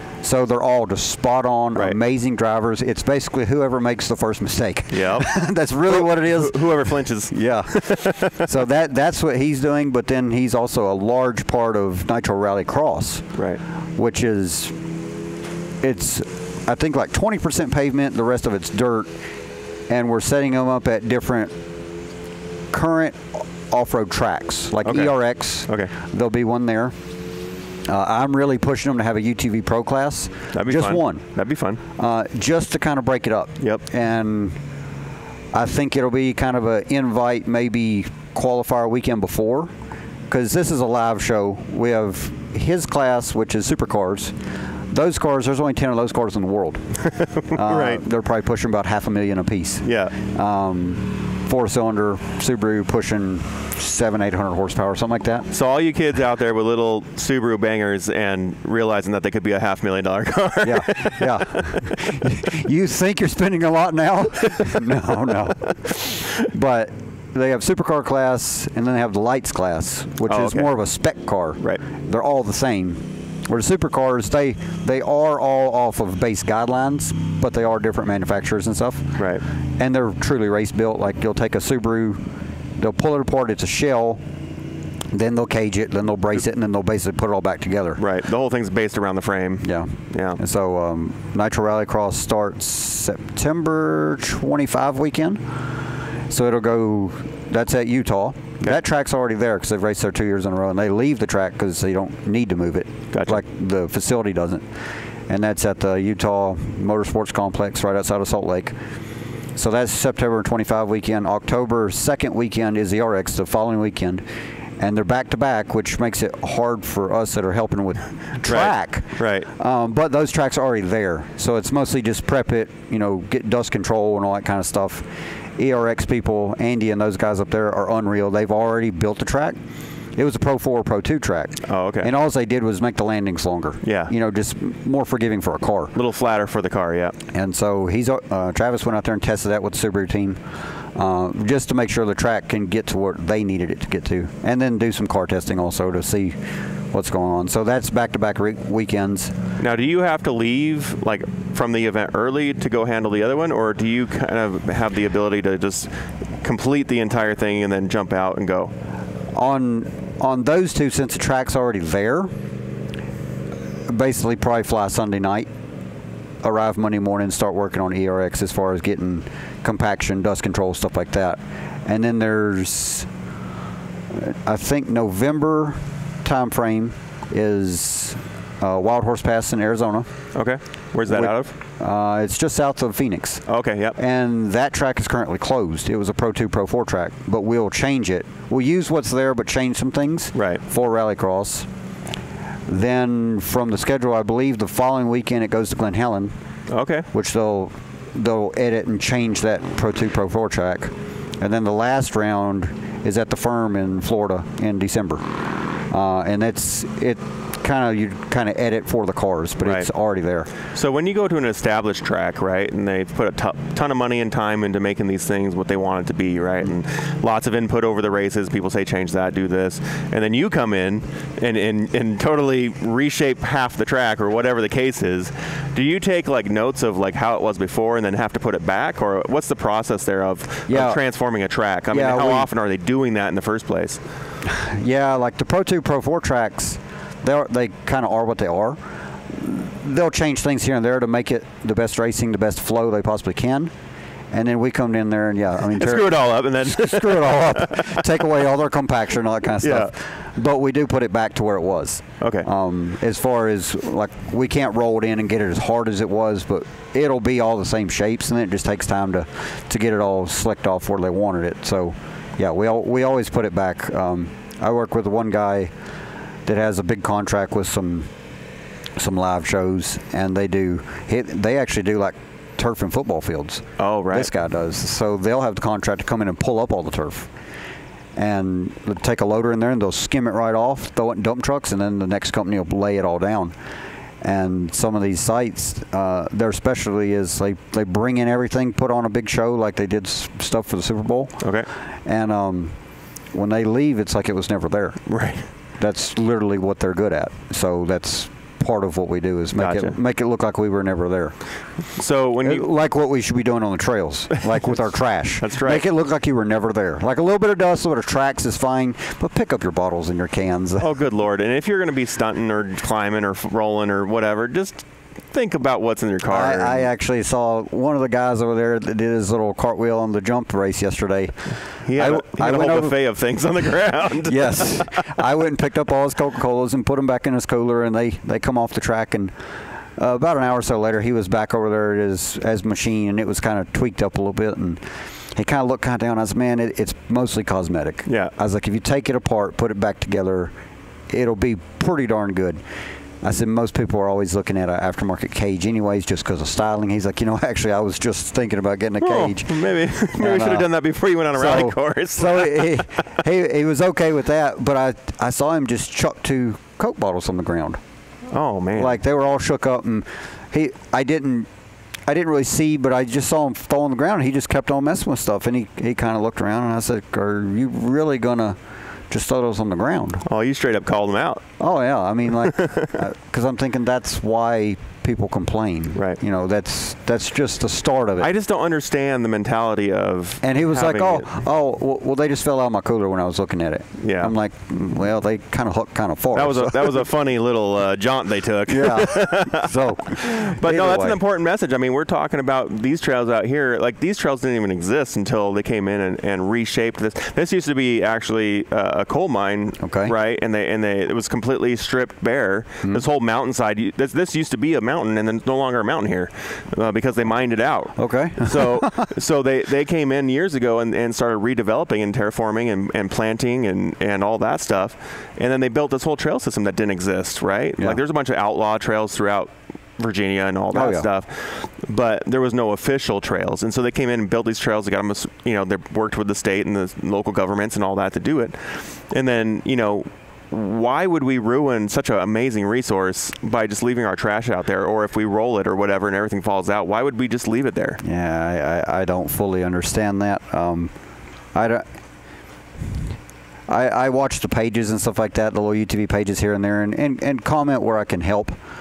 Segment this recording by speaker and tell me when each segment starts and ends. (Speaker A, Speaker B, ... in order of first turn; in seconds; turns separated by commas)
Speaker A: 0.2-13.3, Speaker B: 4.9-5.3, Speaker B: 5.9-8.5, Speaker A: 14.0-14.7, Speaker A: 15.8-19.1, Speaker A: 19.9-21.5, Speaker A: 22.7-26.9, Speaker B: 24.8-25.1, Speaker A: 27.9-31.2, Speaker B: 30.5-31.8, Speaker A: 32.0-34.5, Speaker A: 35.5-39.7, Speaker A: 40.3-44.3, Speaker A: 44.9-46.8, Speaker B: 47.0-48.0, Speaker A: 47.5-55.5, Speaker B: 49.8-50.1, Speaker B: 55.5-62.0, Speaker A: 60.6-79.2, Speaker B: 64.4-66.4, Speaker B: 70.3-70.7, Speaker B: 79.2-79.4, Speaker A: 79.8-82.2, Speaker A: 82.8-84.2, Speaker A: 85.1-88.0, Speaker B: 88.0-90.4, Speaker A: 89.6-95.4, Speaker A: 96.3-104.6, Speaker B: 103.1-103.4, Speaker A: 105.3-108.7, Speaker A: 109.5-114.2, Speaker A: 114.8-129.6, Speaker B: 118.4-119.5, Speaker A: 130.2-135.9, Speaker B: 131.6-132.1, Speaker B: 133.8-134.1, Speaker B: 135.9-137.2, Speaker A: 137.3-140.4, Speaker A: 140.9-146.4, Speaker A: 146.9-149.3, Speaker B: 149.6-158.7, Speaker A: 159.3-162.3, Speaker A: 163.9-165.5, Speaker A: 166.4-173.1, Speaker A: 174.1-180.1, Speaker B: 180.3-181.5, Speaker A: 181.1-183.4, Speaker B: 183.5-184.0, Speaker A: 183.9-191.7, Speaker B: 190.3-190.6, Speaker A: 192.7-196.3, Speaker B: 196.7-197.1, Speaker A: 197.1-205.2, Speaker A: 205.9-210.5, Speaker B: 210.7-234.0, Speaker A: 230.7-231.0, Speaker A: 231.9-232.5, Speaker A: 234.4-243.7, Speaker A: 244.3-265.7, Speaker B: 245.6-248.0, Speaker B: 249.6-249.9, Speaker B: 252.2-252.5, Speaker A: 266.4-268.1, Speaker A: 269.0-277.3, Speaker B: 273.8-274.3, Speaker A: 278.1-283.5, Speaker A: 284.2-291.4, Speaker B: 291.4-291.7, Speaker A: 292.0-292.7, Speaker A: 293.3-295.0, Speaker B: 295.1-295.5, Speaker A: 295.8-301.3, Speaker B: 299.6-299.9, Speaker B: 301.9-302.7, Speaker A: 302.4-310.9, Speaker B: 305.4-305.8, Speaker B: 310.8-316.9, Speaker A: 316.3-321.4, Speaker B: 321.9-325.2, Speaker A: 321.9-322.9, Speaker A: 324.2-329.3, Speaker A: 330.0-334.8, Speaker A: 335.4-340.5, Speaker B: 338.1-338.3, Speaker A: 341.1-342.6, Speaker A: 343.2-349.6, Speaker B: 349.0-352.8, Speaker A: 350.2-350.7, Speaker A: 351.3-357.8, Speaker B: 358.3-359.0, Speaker A: 358.8-361.5, Speaker A: 362.1-368.6, Speaker A: 369.1-370.2, Speaker B: 370.2-371.4, Speaker A: 371.6-378.3, Speaker B: 372.4-373.0, Speaker B: 378.2-381.2, Speaker A: 380.4-387.1, Speaker B: 384.0-384.3, Speaker B: 386.3-438.0, Speaker A: 388.7-391.2, Speaker A: 399.8-400.1, Speaker A: 408.0-409.1, Speaker A: 420.7-421.1, Speaker A: 438.0-440.9, Speaker A: 441.5-441.9, Speaker A: 443.7-448.6